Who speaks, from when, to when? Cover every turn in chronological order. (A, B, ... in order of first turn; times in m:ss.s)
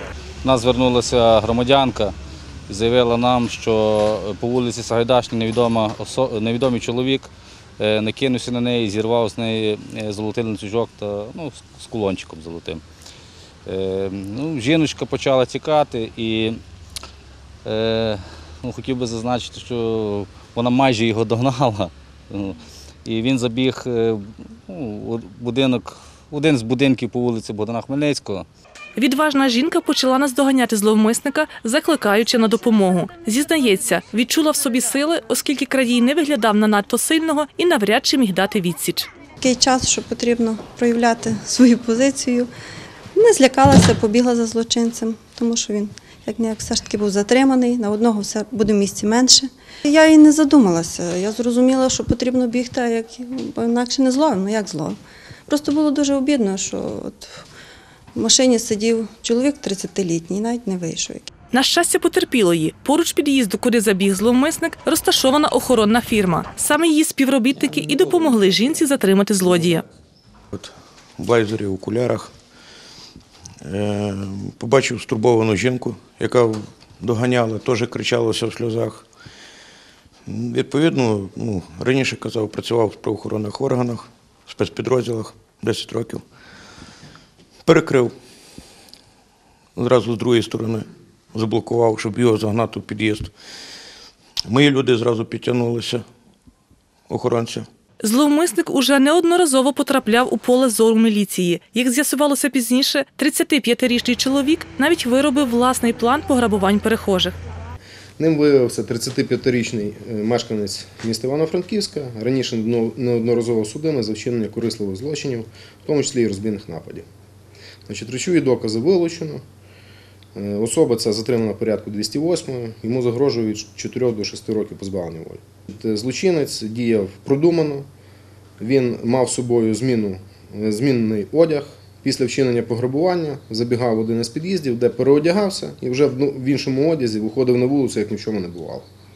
0:00.4-0:02.1 A
0:02.7-0:12.8 A
0:13.6-0:16.6 A
0:17.6-0:28.4 A
0:29.0-0:39.1 B
0:39.4-0:42.5 C
0:43.1-0:57.4 C
0:58.1-1:01.3 C
1:01.5-1:09.8 B
1:10.5-1:12.3 D
1:13.6-1:19.0 D
1:20.3-1:26.2 D
1:27.6-1:28.1 D
1:29.8-1:33.3 D
1:34.5-1:36.0 D
1:37.1-1:37.7 D
1:38.0-1:47.3 B
1:48.2-1:57.0 E
1:57.9-1:59.4 E
2:00.3-2:07.9 E
2:08.6-2:18.8 E